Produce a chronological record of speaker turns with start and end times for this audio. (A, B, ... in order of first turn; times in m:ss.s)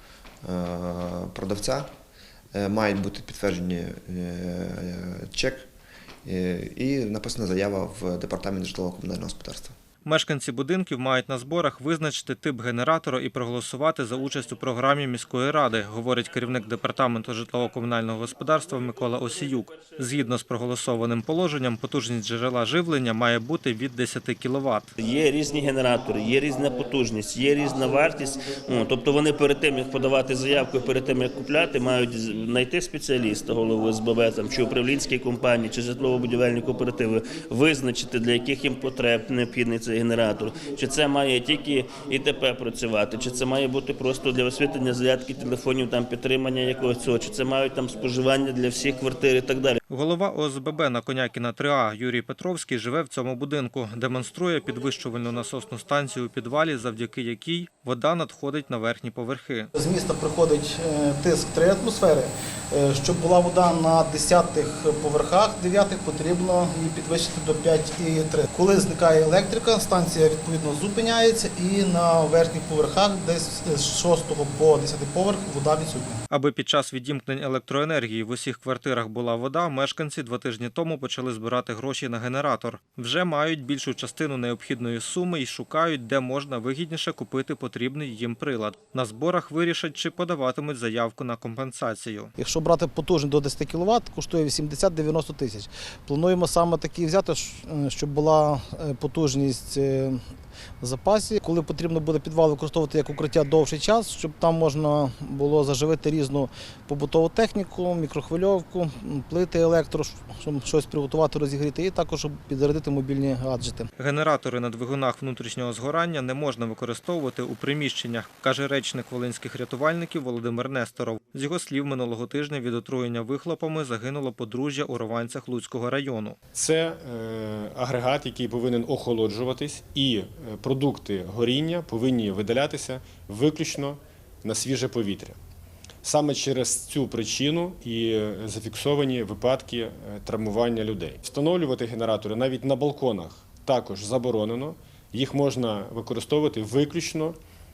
0:00.4-0:01.9 A
0:02.5-0:05.7 A
0:06.2-0:09.8 A
0:10.0-0:25.0 B
0:25.0-0:49.8 C
0:49.9-0:59.7 B
0:59.8-1:16.2 D
1:16.3-1:32.3 B
1:32.4-1:40.2 D
1:40.8-1:53.9 D
1:54.0-2:06.4 B
2:06.6-2:15.4 E
2:16.0-2:27.4 E